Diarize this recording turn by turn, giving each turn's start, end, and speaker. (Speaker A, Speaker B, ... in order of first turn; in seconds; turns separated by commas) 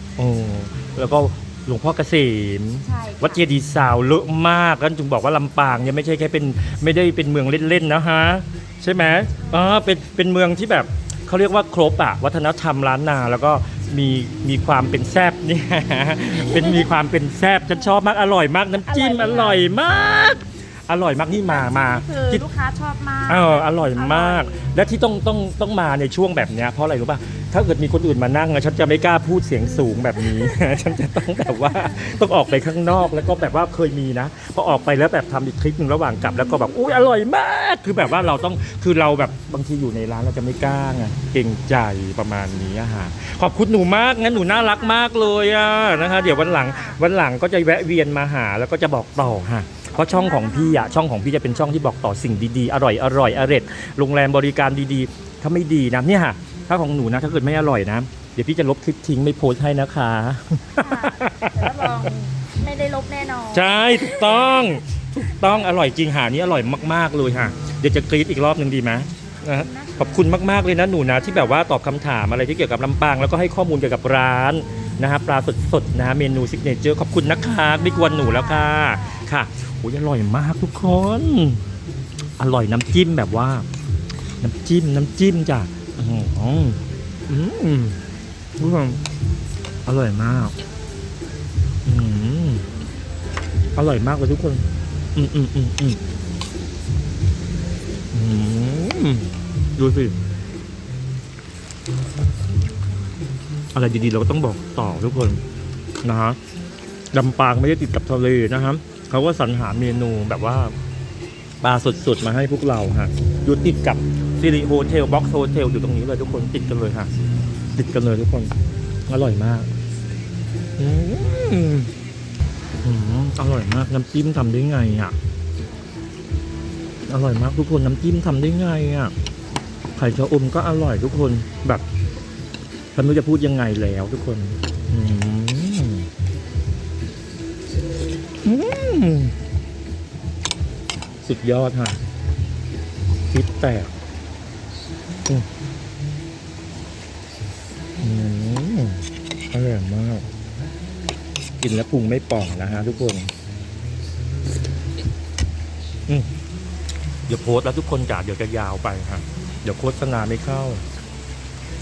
Speaker A: 0.2-22.4, Speaker B: 2.8-3.4, Speaker B: 9.4-9.8, Speaker B: 16.4-16.9, Speaker B: 18.8-19.6, Speaker B: 21.5-24.7, Speaker A: 23.3-62.0, Speaker B: 30.1-30.8, Speaker B: 31.6-32.2, Speaker B: 44.2-47.0, Speaker B: 50.0-51.7, Speaker B: 60.8-64.8, Speaker A: 63.5-81.6, Speaker B: 69.5-70.5, Speaker B: 77.7-79.2, Speaker A: 82.4-83.7, Speaker A: 84.4-88.0, Speaker A: 88.6-89.0, Speaker A: 89.9-90.5, Speaker A: 91.8-92.7, Speaker A: 93.8-96.0, Speaker A: 98.1-100.2, Speaker A: 103.7-105.4, Speaker A: 106.0-106.4, Speaker A: 107.1-110.8, Speaker A: 111.6-117.1, Speaker A: 117.8-118.5, Speaker A: 119.1-119.7, Speaker A: 120.8-121.9, Speaker A: 122.8-125.2, Speaker A: 127.1-129.1, Speaker A: 130.0-131.8, Speaker A: 132.9-136.1, Speaker A: 138.4-139.3, Speaker A: 141.2-142.0, Speaker A: 143.3-143.9, Speaker A: 148.0-150.3, Speaker A: 151.6-153.3, Speaker A: 157.3-160.8